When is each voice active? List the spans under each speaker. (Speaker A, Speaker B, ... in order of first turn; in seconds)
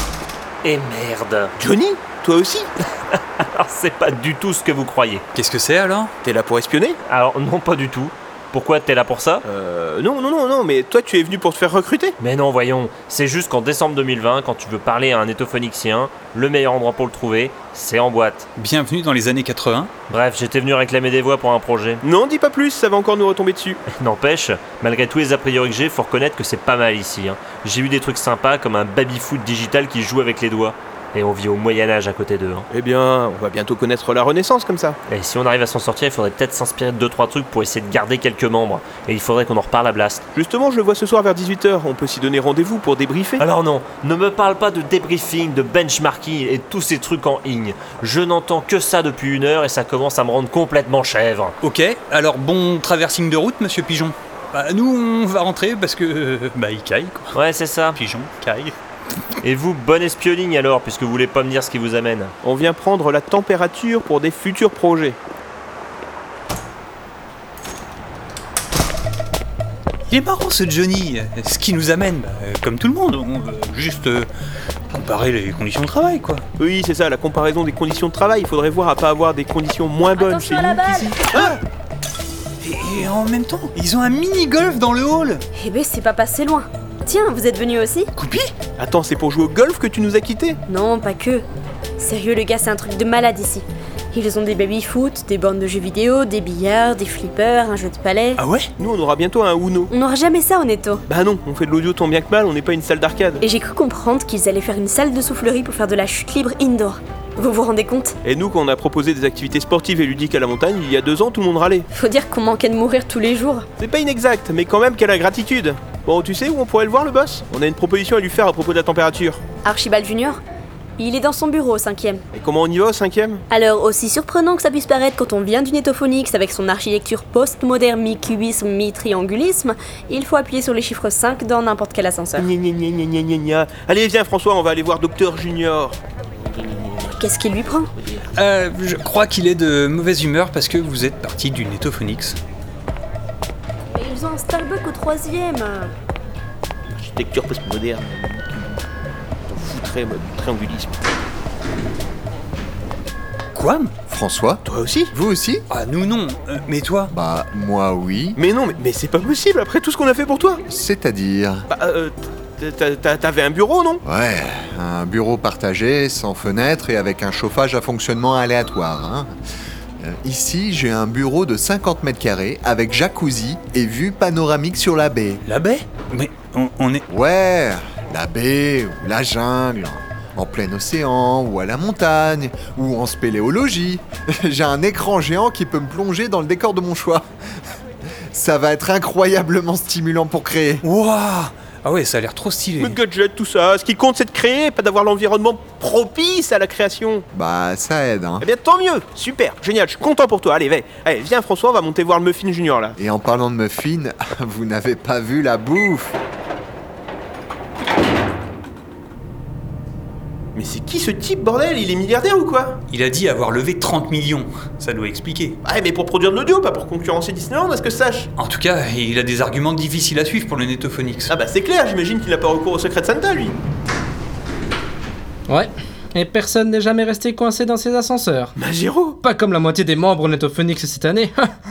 Speaker A: 0.6-1.5, 3.5-5.2, 7.1-9.4, 12.2-18.5, 20.1-22.0, 24.0-32.7, 35.1-40.2, 43.4-51.5, 57.4-58.0, 59.4-62.3
Speaker B: 1.6-2.7, 6.2-7.0, 9.4-12.2, 22.0-23.8, 32.7-35.0, 40.3-43.4, 62.4-65.2, 76.6-81.6, 88.8-90.6, 98.8-99.9, 101.1-103.4, 108.2-111.9, 113.8-119.4, 122.3-123.4, 132.4-136.0, 136.8-137.1, 146.9-148.8, 149.5-151.0, 154.6-155.1, 158.3-160.6, 161.7-164.0, 192.8-197.2, 198.4-203.0, 210.6-212.8, 215.6-218.3, 221.3-223.6, 228.6-229.1
Speaker C: 5.3-6.1, 18.6-19.9, 51.6-57.3, 57.9-58.7, 70.1-74.3, 74.9-76.4, 82.6-85.4, 88.2-88.5, 98.3-98.7, 138.3-142.4, 153.6-153.9, 155.7-157.1, 175.4-177.0, 190.8-193.0, 212.9-215.6, 218.4-221.3
Speaker D: 80.1-81.3, 85.5-88.1, 90.7-91.4, 92.0-98.4, 99.9-101.0, 103.4-108.1, 111.9-113.7, 119.6-120.4, 121.0-122.2, 123.5-132.4, 137.2-137.9, 143.9-145.9
Speaker E: 154.1-155.6, 157.1-158.4, 160.7-161.7, 164.0-169.3, 170.0-175.4, 177.1-187.3, 188.3-190.8, 197.3-198.5, 203.0-206.2
Speaker F: 225.5-228.5, 229.2-231.5